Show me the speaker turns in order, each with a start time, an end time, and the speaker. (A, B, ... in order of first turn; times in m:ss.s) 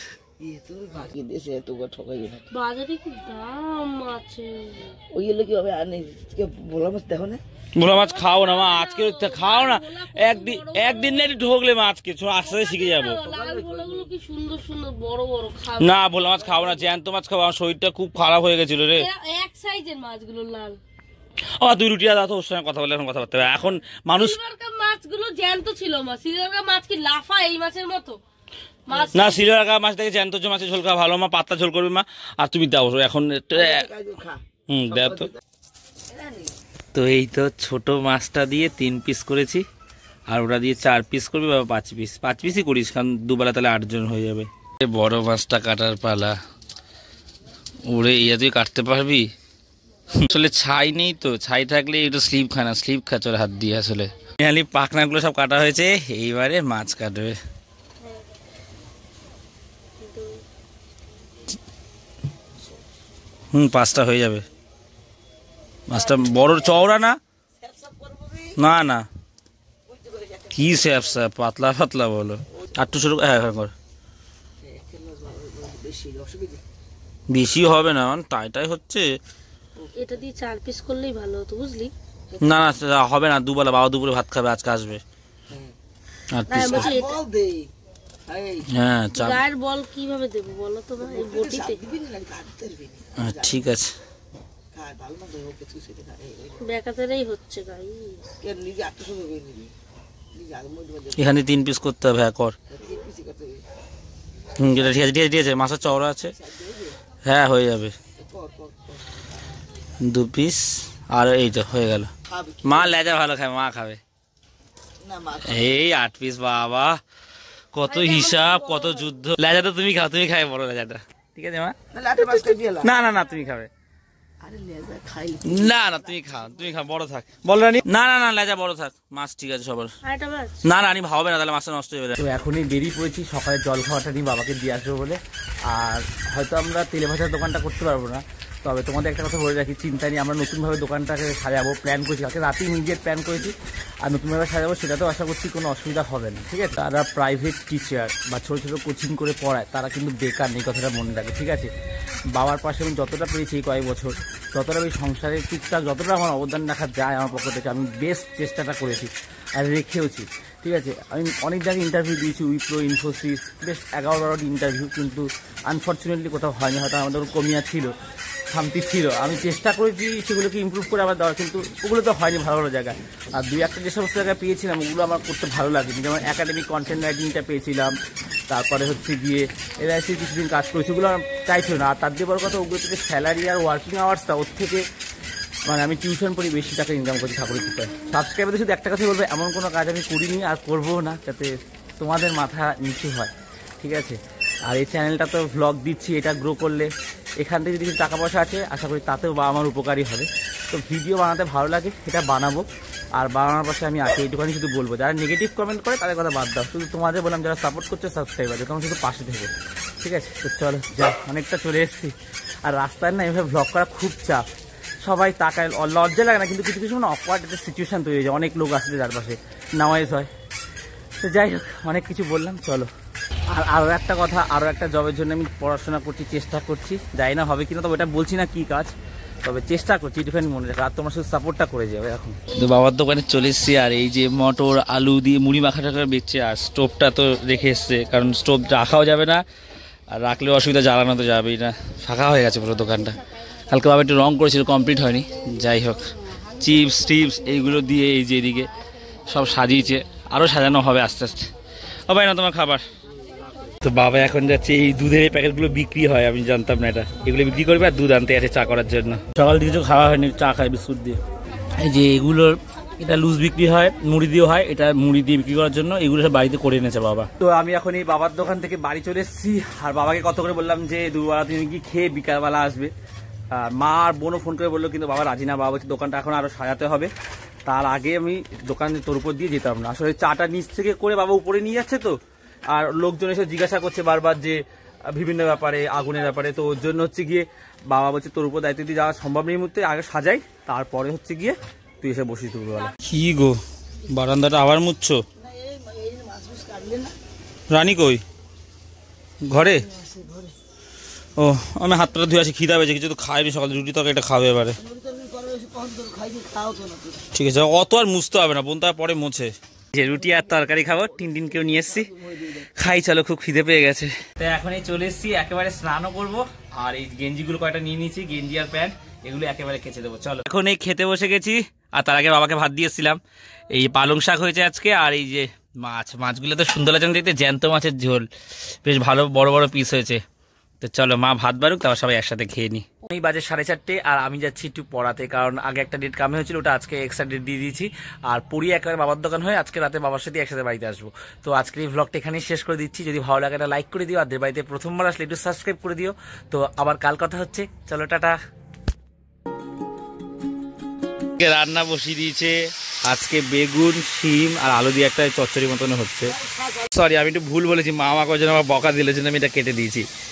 0:00.4-0:02.5 A
0:02.5-0:05.0 B
0:05.1-0:07.4 A
0:07.8-0:13.2 C
0:07.9-0:11.4 B
0:12.4-0:16.0 B
0:13.2-0:14.1 A
0:15.8-0:19.1 C
0:19.0-0:20.8 B
0:21.6-0:24.4 C
0:24.1-0:28.2 B
0:28.9-0:29.4 A
0:28.9-0:29.4 B
0:29.1-0:33.9 C
0:33.5-0:34.4 A
0:34.7-0:35.3 C
0:34.9-0:35.3 A
0:36.1-0:36.5 A
0:36.9-0:39.6 C
0:40.3-0:46.4 C
0:47.8-0:49.3 C
0:50.1-0:57.4 C
1:00.0-1:00.4 B
1:03.5-1:04.4 C
1:05.9-1:07.2 C
1:07.6-1:08.6 A
1:08.6-1:09.1 C
1:09.9-1:11.1 A
1:10.5-1:13.7 C
1:14.6-1:16.6 A
1:17.3-1:19.0 C
1:19.8-1:20.2 A
1:20.0-1:21.9 B
1:22.3-1:22.7 A
1:22.4-1:25.0 C
1:25.5-1:25.8 A
1:26.3-1:26.9 C
1:26.5-1:27.2 B
1:26.6-1:27.7 A
1:28.3-1:28.7 A
1:28.7-1:29.4 C
1:29.1-1:31.8 B
1:31.0-1:33.7 A
1:33.2-1:33.9 C
1:34.8-1:36.7 A
1:36.6-1:38.2 B
1:38.4-1:39.7 A
1:40.3-1:41.3 A
1:41.2-1:42.5 C
1:42.7-1:43.6 A
1:44.6-1:46.3 C
1:46.2-1:47.0 A
1:47.2-1:48.0 C
1:48.2-1:49.3 A
1:50.0-1:52.1 C
1:52.3-1:53.0 A
1:52.6-1:54.0 C
1:55.0-1:55.8 A
1:55.4-1:57.0 C
1:57.7-2:01.8 C
1:57.9-1:59.1 B
2:01.9-2:02.9 A
2:02.4-2:03.7 C
2:04.4-2:06.2 A
2:05.5-2:09.9 C
2:10.0-2:10.6 B
2:10.6-2:31.7 C
2:32.4-2:47.9 C
2:48.5-2:58.0 C
2:58.5-3:04.8 C
3:05.7-3:22.6 C
3:23.2-3:32.1 C
3:32.7-3:34.4 C
3:35.0-3:40.3 C
3:41.2-3:42.9 C
3:43.5-3:48.9 C
3:49.4-3:59.4 C
4:00.1-4:03.2 C
4:03.7-4:08.7 C
4:09.3-4:11.5 C
4:12.1-4:12.8 C
4:13.8-4:21.2 C
4:21.8-4:32.9 C
4:33.5-4:37.1 C
4:37.7-4:42.2 C
4:42.7-4:53.6 C
4:54.1-4:55.2 C
4:55.4-4:57.2 A
4:57.7-4:58.2 C
4:59.5-4:59.8 C
4:59.8-5:00.6 A
5:01.4-5:04.8 C
5:04.8-5:07.3 A
5:07.3-5:12.1 C
5:10.0-5:12.7 A
5:12.8-5:23.2 C
5:23.7-5:28.3 C
5:28.8-5:30.2 C
5:30.8-5:48.4 C
5:51.4-5:56.4 C
5:56.4-5:56.8 A
5:56.9-6:00.1 C